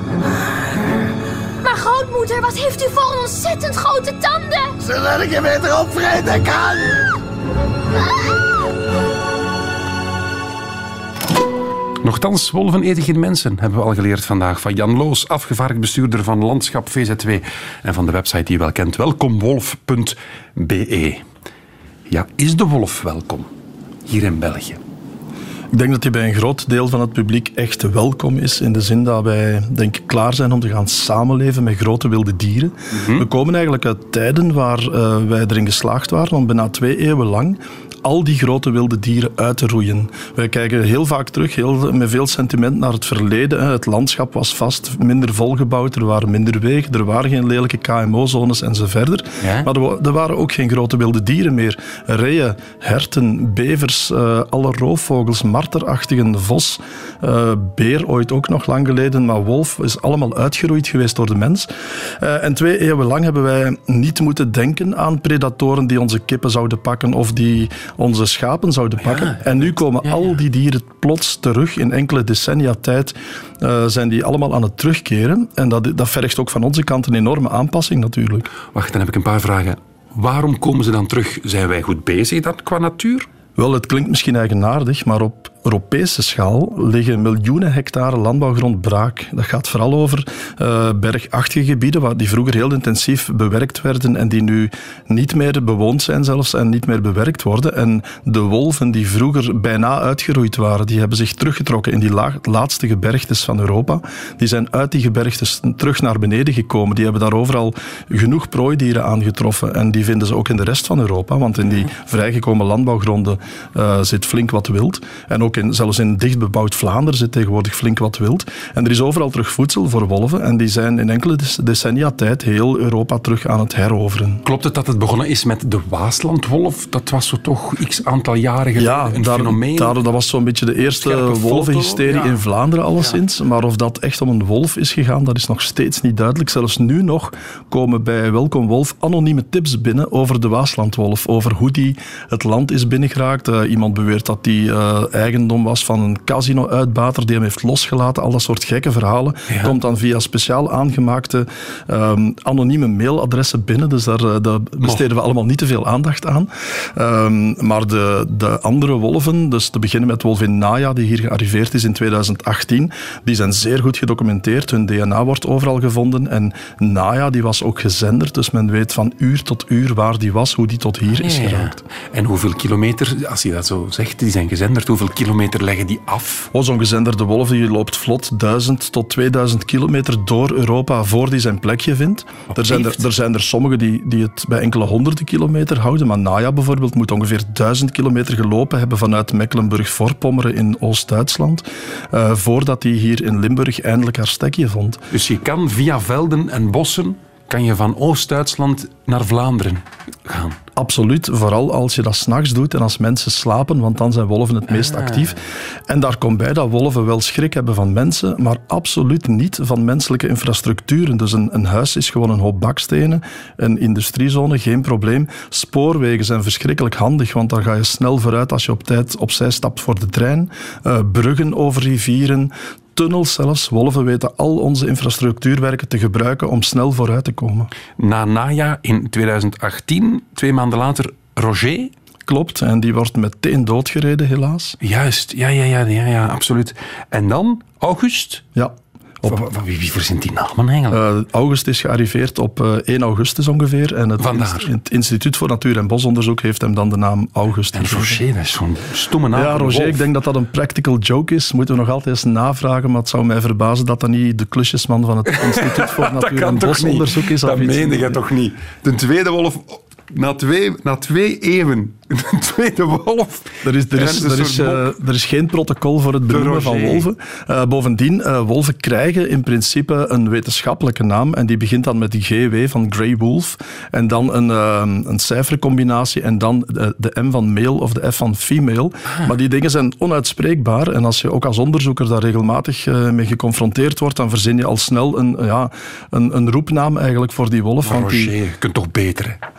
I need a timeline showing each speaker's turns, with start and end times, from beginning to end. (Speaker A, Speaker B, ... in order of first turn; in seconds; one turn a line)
Speaker A: 1.6-4.7
Speaker B: 4.8-7.0
Speaker C: 12.0-21.2
Speaker C: 22.1-23.5
Speaker C: 24.1-24.8
Speaker D: 25.7-61.7
Speaker C: 32.9-33.3
Speaker C: 49.4-49.7
Speaker D: 62.2-78.5
Speaker C: 69.0-70.4
Speaker C: 78.7-83.3
Speaker D: 83.5-124.4
Speaker C: 124.4-130.0
Speaker D: 128.8-171.8
Speaker C: 130.8-132.4
Speaker C: 149.5-149.8
Speaker C: 171.2-176.5
Speaker D: 176.5-195.0
Speaker C: 182.5-183.0
Speaker C: 195.1-200.6
Speaker D: 200.8-227.7
Speaker C: 204.7-205.4
Speaker C: 227.9-231.9
Speaker D: 232.3-234.8
Speaker C: 234.8-238.4
Speaker D: 238.5-239.4
Speaker C: 239.2-241.0
Speaker D: 240.9-248.2
Speaker C: 244.2-244.7
Speaker C: 247.7-250.1
Speaker D: 249.3-258.2
Speaker C: 255.3-264.9
Speaker D: 263.6-288.3
Speaker C: 266.3-267.1
Speaker C: 287.8-289.4